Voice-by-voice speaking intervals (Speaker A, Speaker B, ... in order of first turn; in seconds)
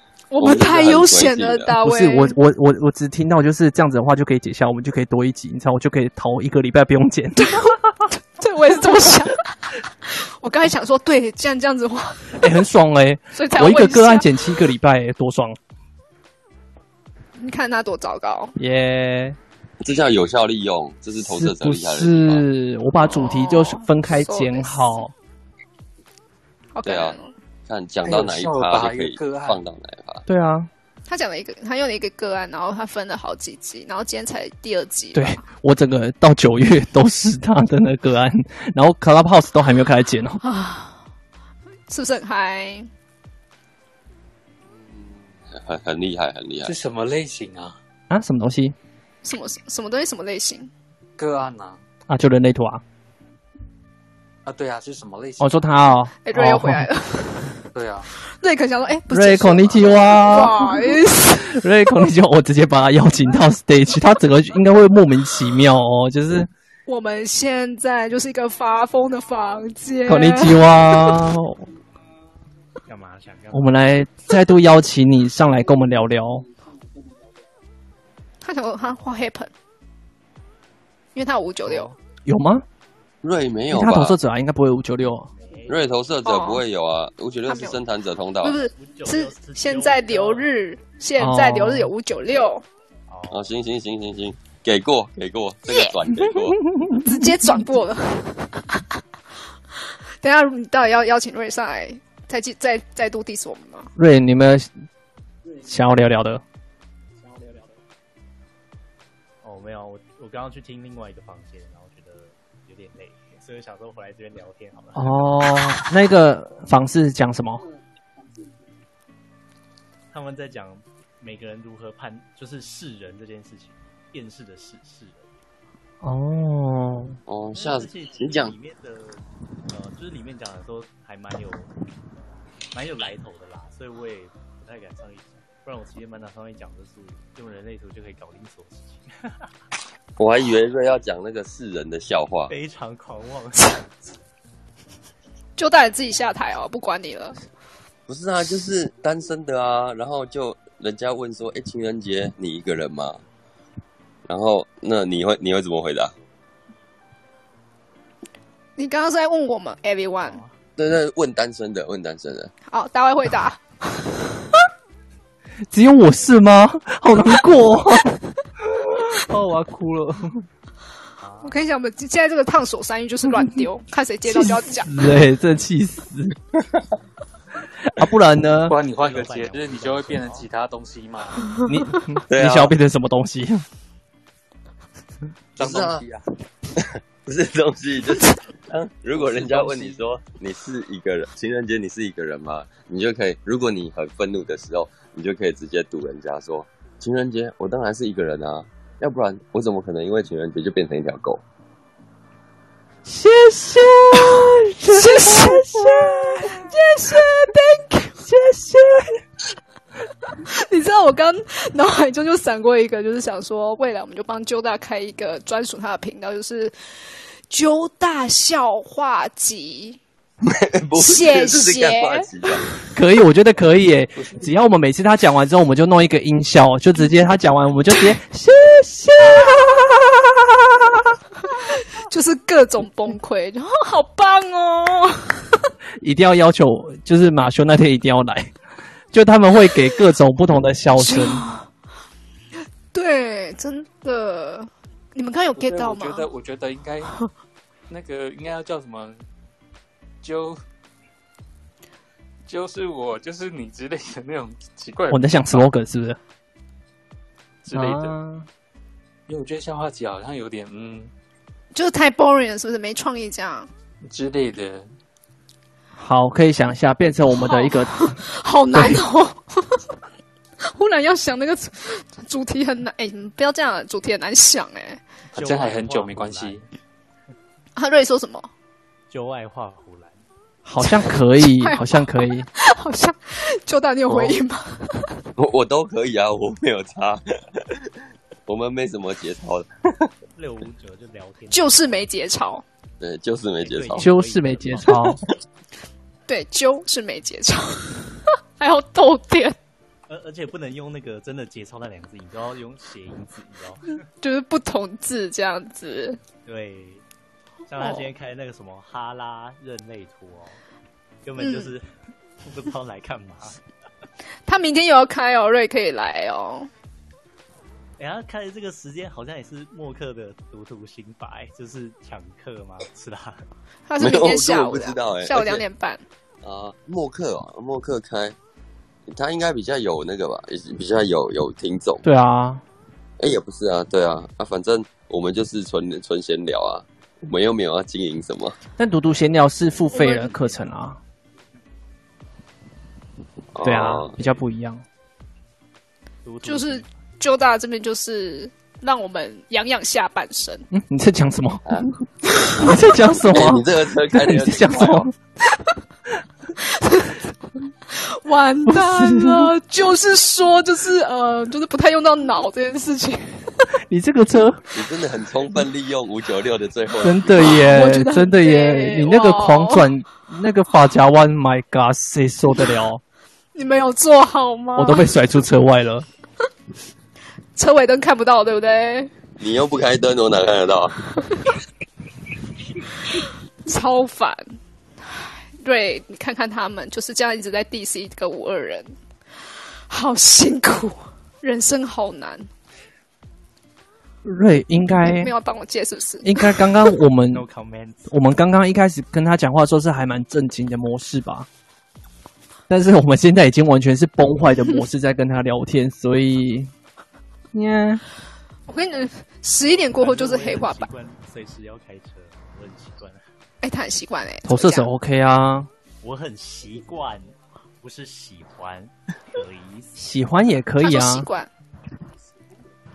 Speaker A: 0.3-2.4, 7.4-12.5, 13.3-14.3, 17.4-18.6, 23.0-25.0, 26.8-27.3, 31.1-35.4, 40.4-41.0, 41.9-42.9, 49.2-50.7, 56.2-57.6, 58.3-61.6, 66.9-71.2, 78.4-79.5, 81.2-82.0, 86.2-86.6, 87.5-87.8, 88.4-92.7, 95.7-96.0, 96.9-99.0, 100.2-103.9, 145.6-147.4, 158.8-160.4, 162.7-164.6, 171.4-174.9, 181.5-182.0, 204.2-208.3, 210.3-216.7, 217.5-220.0, 221.0-222.7, 232.1-235.7, 241.0-241.7, 242.9-246.3, 261.7-263.7, 267.3-269.8, 270.6-275.0, 277.8-278.5, 280.8-285.2, 291.5-292.6, 296.3-299.6, 304.2-306.2, 307.8-308.1, 311.4-311.7, 314.5-316.7, 323.9-326.0, 339.9-340.3, 346.4-350.7, 356.6-357.3, 357.9-363.7, 367.4-369.9, 373.6-375.1, 377.6-379.1, 383.1-384.5, 385.1-388.9, 389.9-392.5, 395.0-396.9, 408.7-410.9, 413.6-414.9, 420.8-421.5
Speaker B: 0.4-1.8, 19.8-22.4, 26.9-30.2, 44.7-46.8, 83.2-84.2, 85.7-88.6, 93.3-96.6, 127.3-128.6, 140.2-142.6, 148.1-153.2, 154.3-156.1, 160.8-162.5, 182.3-182.7, 185.6-186.0, 186.8-201.4, 220.5-222.7, 285.4-287.9, 288.5-290.1, 293.0-294.1, 324.0-325.6, 326.4-328.4, 329.1-332.1, 333.2-338.6, 343.5-344.2, 351.7-355.1, 364.7-367.7, 379.4-381.0
Speaker C: 1.8-7.6, 12.4-15.6, 18.6-19.4, 21.2-25.1, 30.3-30.7, 35.1-40.4, 48.1-48.8, 52.1-52.8, 55.4-56.9, 59.1-66.5, 70.1-71.7, 73.5-76.5, 82.2-82.7, 83.7-85.3, 91.2-91.9, 96.7-97.3, 104.0-104.7, 105.6-106.4, 115.0-117.6, 126.0-127.2, 165.7-170.4, 174.3-176.4, 177.8-178.8, 181.7-183.7, 203.1-206.7, 208.3-209.1, 222.9-231.0, 236.0-238.5, 239.1-241.5, 255.1-256.2, 257.7-258.5, 266.0-268.2, 268.7-269.0, 280.7-282.5, 294.0-295.2, 332.0-332.6, 338.8-341.0, 343.6-344.8, 350.7-351.8, 352.4-355.1, 358.7-359.5, 363.8-364.6, 367.0-373.0, 374.8-376.1, 394.2-395.3, 396.2-397.5, 398.1-401.5, 402.7-406.7, 407.5-408.0, 414.4-415.7, 420.0-421.3
Speaker D: 28.0-29.6, 46.6-47.8, 51.2-51.8, 54.5-55.6, 57.7-58.1, 178.7-181.5, 185.6-186.2, 189.1-190.0, 245.6-247.2, 247.9-249.2, 250.2-250.6, 252.5-255.7, 257.6-258.2, 259.3-261.1, 264.0-264.9, 275.4-276.6
Speaker E: 72.9-73.9, 85.3-85.9, 88.7-90.5, 93.1-93.6, 109.4-115.3, 120.1-125.3, 127.5-131.7, 132.7-139.5, 142.5-143.9, 160.2-160.5, 171.2-171.6, 178.9-180.5, 275.3-276.6, 279.1-280.2, 290.4-292.1, 293.6-295.2, 300.1-304.0, 306.4-307.0, 307.7-310.6, 311.2-311.9, 312.4-313.6, 318.0-323.5, 339.9-340.8, 346.2-346.9, 397.3-398.1, 409.6-413.2, 416.0-420.0